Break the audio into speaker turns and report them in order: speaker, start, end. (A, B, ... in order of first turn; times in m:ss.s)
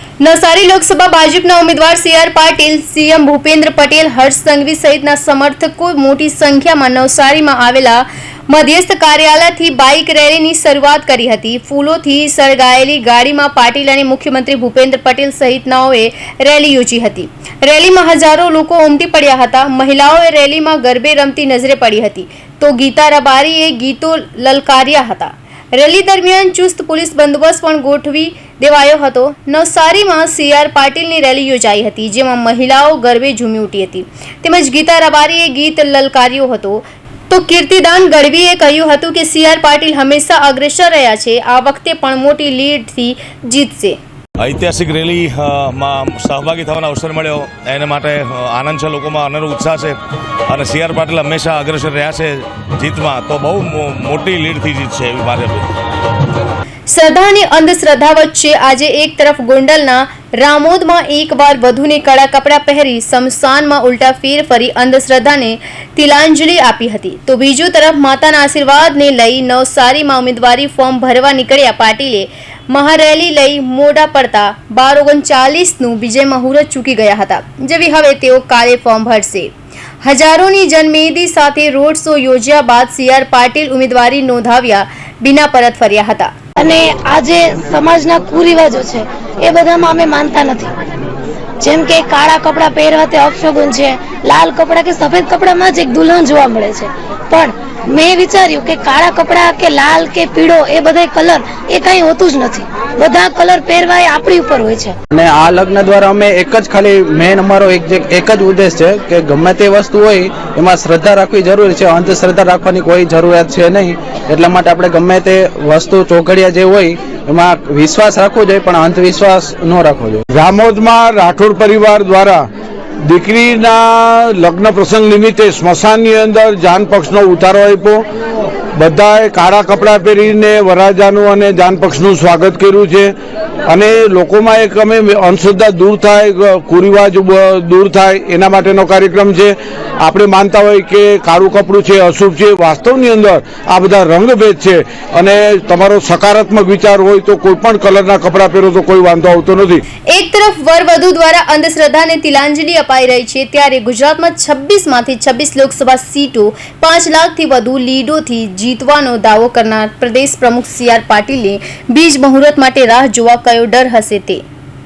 0:00.2-0:44.0 A
0:44.4-0:50.0 B
0:50.5-0:55.7 B
0:56.9-1:19.5 A
1:20.0-1:26.3 A
1:26.6-1:30.7 C
1:31.6-1:44.9 C
1:45.1-2:00.2 D
2:00.3-2:02.4 E
2:03.1-2:08.0 E
2:08.8-2:13.1 E
2:13.7-2:29.8 E
2:30.1-2:44.4 A